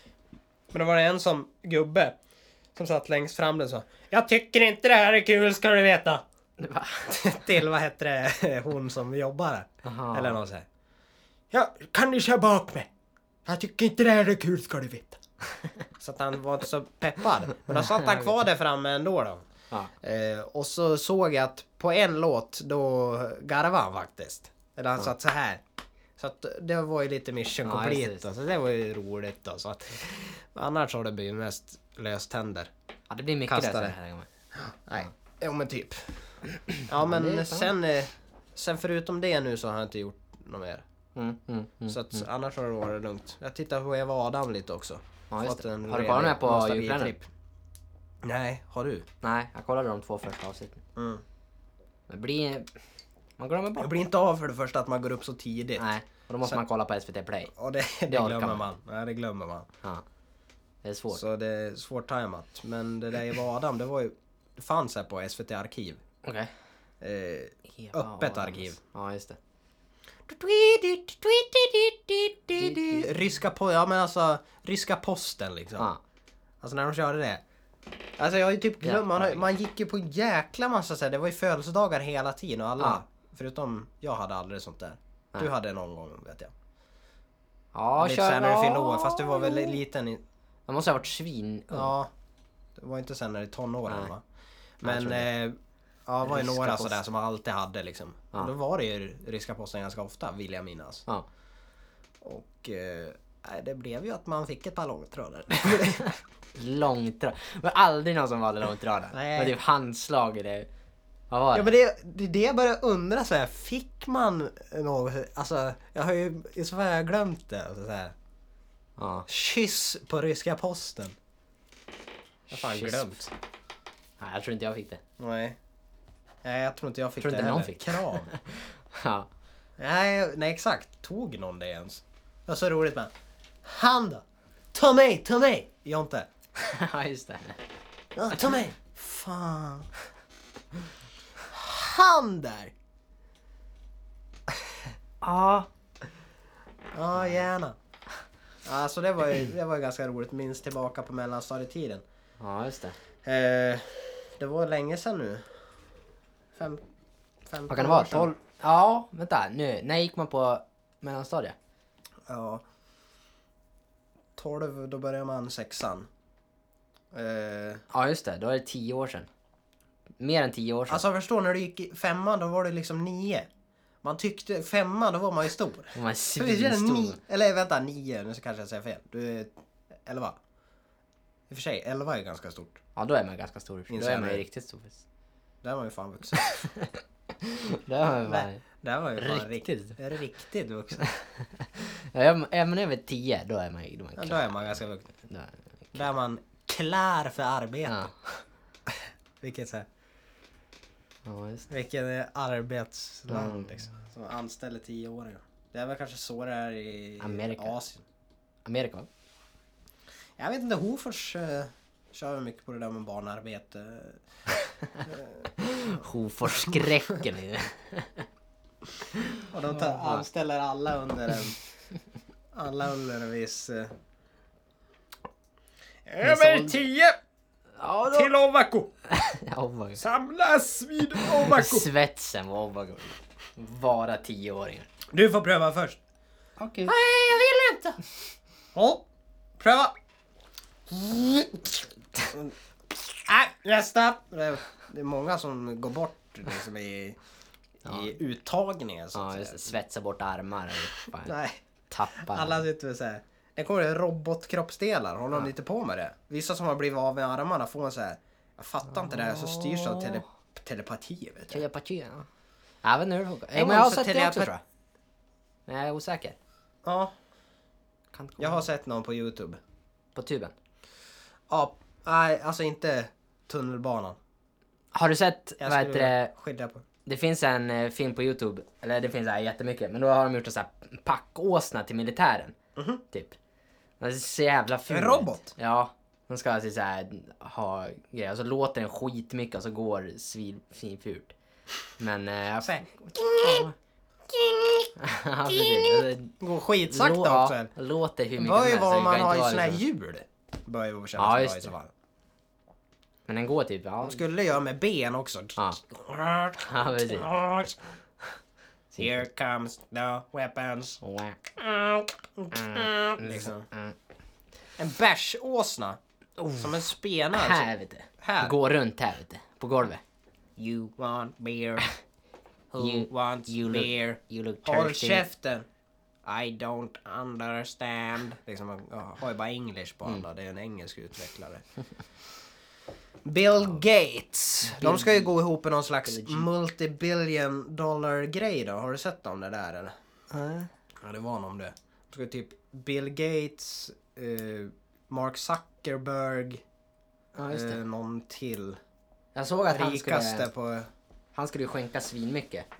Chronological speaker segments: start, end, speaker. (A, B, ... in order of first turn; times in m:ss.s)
0:00.7-0:02.2 A
0:02.7-0:06.2 A
0:06.6-0:07.2 B
0:07.1-0:10.7 A
0:09.8-0:10.4 B
0:11.5-0:12.9 A
0:13.4-0:15.2 A
0:16.0-0:19.4 A
0:17.8-0:18.2 B
0:20.0-0:25.6 A
0:26.2-0:32.7 A
0:27.6-0:28.2 B
0:33.1-0:34.3 B
0:33.5-0:34.0 A
0:34.5-0:36.1 A
0:36.7-0:37.7 B
0:36.9-0:40.8 A
0:41.2-0:42.2 B
0:41.9-0:47.3 A
0:45.3-0:47.1 B
0:48.2-0:49.0 A
0:49.2-0:50.8 B
0:51.0-0:51.2 A
0:52.1-0:52.7 B
0:53.4-0:53.9 B
0:53.8-0:55.9 A
0:55.8-0:57.5 B
0:57.5-0:59.7 A
0:58.1-0:58.6 B
1:00.8-1:01.2 B
1:01.1-1:06.0 A
1:06.2-1:06.5 B
1:07.0-1:08.8 A
1:07.8-1:09.4 B
1:10.3-1:15.9 A
1:12.6-1:13.1 B
1:16.6-1:17.4 A
1:18.2-1:26.5 A
1:18.8-1:19.4 B
1:27.7-1:29.8 B
1:28.0-1:30.2 A
1:30.7-1:31.9 B
1:31.7-1:32.1 A
1:32.8-1:34.2 A
1:34.8-1:41.0 A
1:34.8-1:35.3 B
1:36.2-1:37.0 B
1:42.2-1:46.2 A
1:46.5-1:50.7 B
1:49.1-1:49.6 A
1:51.3-1:51.7 B
1:51.5-1:58.1 A
1:59.0-1:59.3 B
1:59.3-2:01.2 A
2:02.5-2:03.2 B
2:02.5-2:03.3 A
2:04.2-2:05.0 B
2:05.2-2:05.6 A
2:06.4-2:08.3 A
2:07.2-2:09.3 B
2:09.8-2:13.1 A
2:13.6-2:16.3 A
2:16.6-2:17.6 B
2:18.1-2:19.9 A
2:21.5-2:22.7 A
2:25.2-2:25.7 B
2:26.9-2:27.8 A
2:28.6-2:32.0 A
2:32.4-2:33.0 B
2:33.2-2:35.5 A
2:36.5-2:36.8 A
2:37.5-2:38.3 A
2:37.7-2:41.6 B
2:42.3-2:42.6 A
2:44.4-2:46.1 A
2:47.1-2:47.8 A
2:47.9-2:49.3 B
2:50.2-2:51.0 B
2:50.9-2:53.5 A
2:54.0-2:59.5 A
2:55.9-2:57.2 B
3:00.0-3:00.4 A
3:01.5-3:02.8 A
3:03.0-3:05.0 B
3:03.9-3:04.4 A
3:05.6-3:06.4 A
3:06.4-3:08.6 B
3:08.2-3:11.0 A
3:09.2-3:10.0 B
3:11.0-3:16.0 B
3:14.2-3:15.1 A
3:15.9-3:18.1 A
3:17.8-3:18.4 B
3:18.9-3:19.9 A
3:21.2-3:21.7 B
3:21.7-3:28.0 A
3:23.3-3:23.8 B
3:27.2-3:27.7 B
3:28.6-3:29.1 B
3:30.4-3:34.2 A
3:35.0-3:35.5 A
3:35.6-3:38.2 B
3:36.5-3:36.8 A
3:39.2-3:40.2 B
3:39.5-3:41.6 A
3:42.5-3:43.9 A
3:46.0-3:47.2 A
3:46.2-3:46.8 B
3:47.8-3:48.3 B
3:48.1-3:48.9 A
3:49.1-3:50.0 B
3:50.0-3:51.9 A
3:51.2-3:54.9 B
3:55.1-3:56.0 A
3:56.6-3:56.9 B
3:56.8-3:58.0 A
3:58.7-3:59.0 A
3:59.6-3:59.9 A
4:00.9-4:07.2 A
4:07.8-4:09.7 A
4:07.8-4:08.1 B
4:09.1-4:11.4 B
4:11.2-4:11.6 A
4:11.9-4:12.6 B
4:12.2-4:21.6 A
4:18.9-4:20.2 B
4:21.5-4:22.3 B
4:22.8-4:24.6 B
4:23.5-4:24.5 A
4:25.7-4:26.4 B
4:26.8-4:27.1 A
4:28.1-4:28.6 B
4:28.4-4:29.6 A
4:30.1-4:30.5 B
4:31.5-4:34.2 A
4:34.9-4:36.3 B
4:35.6-4:36.8 A
4:37.0-4:42.6 B
4:42.8-4:43.0 A
4:43.1-4:43.4 B
4:44.0-4:51.3 B
4:44.9-4:45.5 A
4:52.0-4:53.7 B
4:52.6-4:53.7 A
4:54.3-4:54.9 A
4:55.0-4:56.3 B
4:55.5-4:57.7 A
4:56.9-4:59.8 B
4:58.4-5:01.9 A
5:01.2-5:01.7 B
5:03.3-5:04.2 B
5:04.0-5:07.8 A
5:06.6-5:07.3 B
5:09.0-5:11.0 A
5:11.0-5:11.4 B
5:11.5-5:13.6 A
5:12.5-5:14.0 B
5:14.8-5:16.0 A
5:16.4-5:16.7 B
5:16.6-5:17.7 A
5:17.3-5:20.0 B
5:18.2-5:18.6 A
5:20.6-5:21.8 A
5:22.7-5:25.6 A
5:22.8-5:25.2 B
5:26.2-5:31.6 A
5:33.2-5:39.9 A
5:34.7-5:35.3 B
5:36.0-5:36.5 B
5:40.3-5:40.7 B
5:41.0-5:46.6 A
5:47.4-5:47.8 B
5:47.5-5:48.8 A
5:49.3-5:50.5 B
5:49.7-5:50.9 A
5:51.3-5:52.6 B